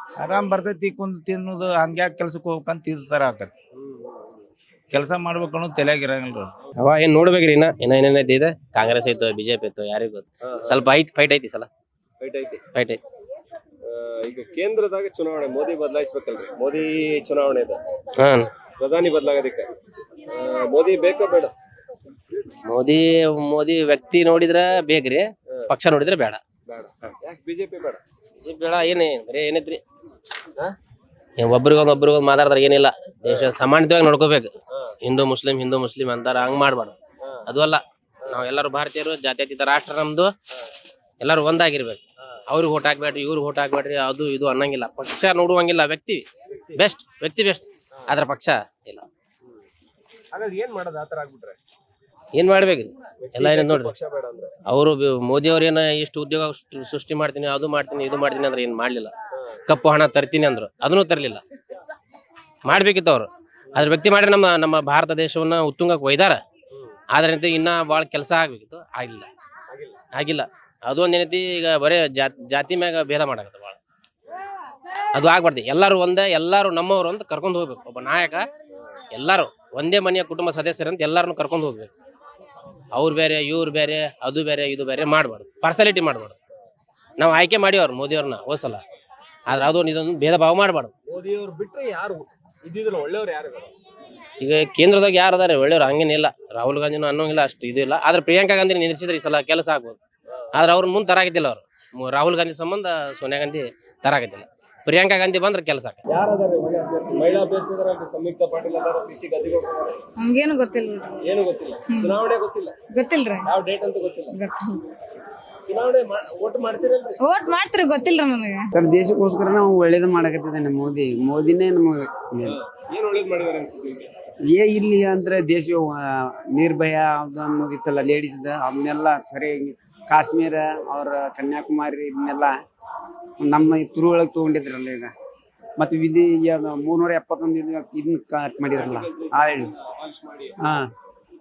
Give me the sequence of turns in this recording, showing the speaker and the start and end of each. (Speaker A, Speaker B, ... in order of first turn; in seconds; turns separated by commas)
Speaker A: 0.2-3.5, Speaker B: 3.7-4.5, Speaker A: 4.9-6.5, Speaker C: 6.8-11.7, Speaker B: 10.4-10.8, Speaker B: 12.2-12.7, Speaker C: 12.7-13.0, Speaker B: 13.8-17.8, Speaker C: 18.2-18.5, Speaker B: 18.8-19.7, Speaker B: 20.3-21.5, Speaker C: 22.6-26.4, Speaker B: 26.7-28.0, Speaker C: 28.4-29.8, Speaker C: 31.4-34.5, Speaker C: 35.0-37.0, Speaker C: 37.5-40.3, Speaker C: 41.2-46.2, Speaker B: 46.5-46.8, Speaker C: 46.8-49.0, Speaker B: 50.3-51.6, Speaker C: 52.4-53.9, Speaker B: 53.2-54.5, Speaker C: 54.7-59.1, Speaker C: 59.7-61.4, Speaker C: 62.6-66.4, Speaker C: 67.1-69.3, Speaker B: 69.7-70.0, Speaker C: 70.1-73.8, Speaker C: 75.1-78.4, Speaker C: 79.1-81.9, Speaker C: 82.9-86.3, Speaker C: 87.2-88.8, Speaker C: 89.5-90.9, Speaker B: 91.1-93.7, Speaker C: 94.4-100.0, Speaker C: 100.5-106.0, Speaker B: 106.1-110.0, Speaker D: 110.2-110.9, Speaker B: 111.2-112.7, Speaker D: 111.9-112.2, Speaker D: 113.0-113.5, Speaker B: 113.5-114.3, Speaker B: 115.7-117.1, Speaker D: 117.2-118.7, Speaker E: 118.7-122.6, Speaker B: 122.4-124.1, Speaker E: 124.5-132.6, Speaker E: 133.4-135.1, Speaker E: 135.8-139.7, Speaker B: 138.7-140.6, Speaker E: 140.6-140.9